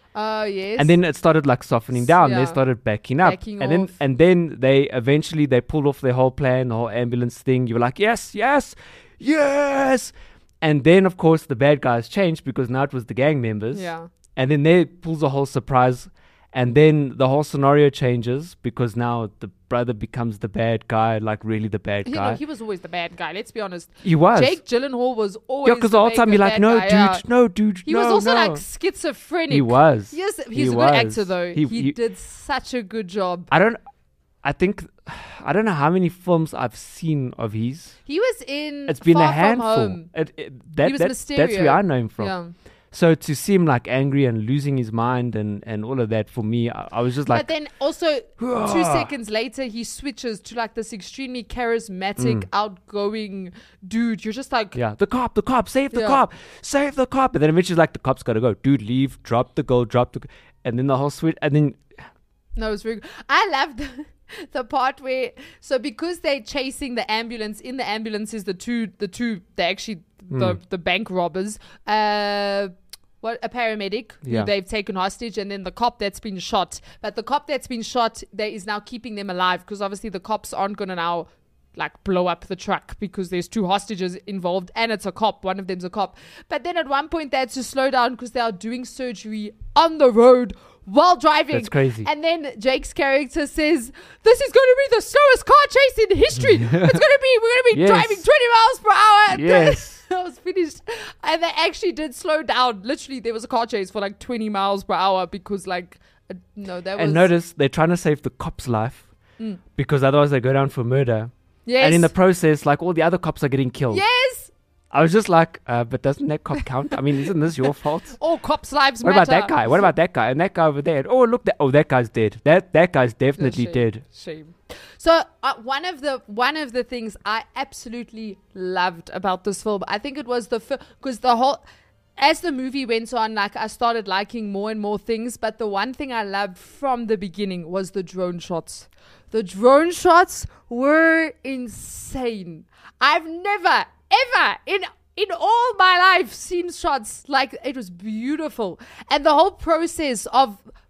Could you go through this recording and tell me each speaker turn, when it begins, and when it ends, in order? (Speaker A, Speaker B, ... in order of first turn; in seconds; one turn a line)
Speaker A: 0.1-1.0
Speaker B: 0.8-22.4
Speaker A: 1.9-2.6
Speaker A: 3.2-4.0
Speaker A: 13.7-14.1
Speaker A: 22.1-27.2
Speaker B: 24.0-24.6
Speaker B: 25.6-28.6
Speaker A: 27.9-33.5
Speaker B: 29.5-31.9
Speaker B: 33.5-33.8
Speaker B: 34.4-38.0
Speaker A: 38.0-40.1
Speaker B: 38.9-42.4
Speaker A: 40.8-42.5
Speaker B: 42.9-47.5
Speaker A: 47.2-54.8
Speaker B: 48.4-49.1
Speaker B: 52.2-52.5
Speaker B: 54.7-61.8
Speaker A: 55.9-56.2
Speaker A: 62.6-107.3
Speaker B: 70.3-70.6
Speaker B: 74.2-74.5
Speaker B: 91.5-92.1
Speaker B: 96.4-97.0
Speaker B: 97.7-98.2
Speaker B: 99.3-100.0
Speaker B: 107.0-109.1
Speaker B: 109.7-114.0
Speaker A: 111.6-112.1
Speaker A: 113.9-114.5
Speaker B: 114.9-118.1
Speaker A: 117.2-119.9
Speaker B: 119.0-124.0
Speaker A: 123.4-131.6
Speaker A: 132.2-150.7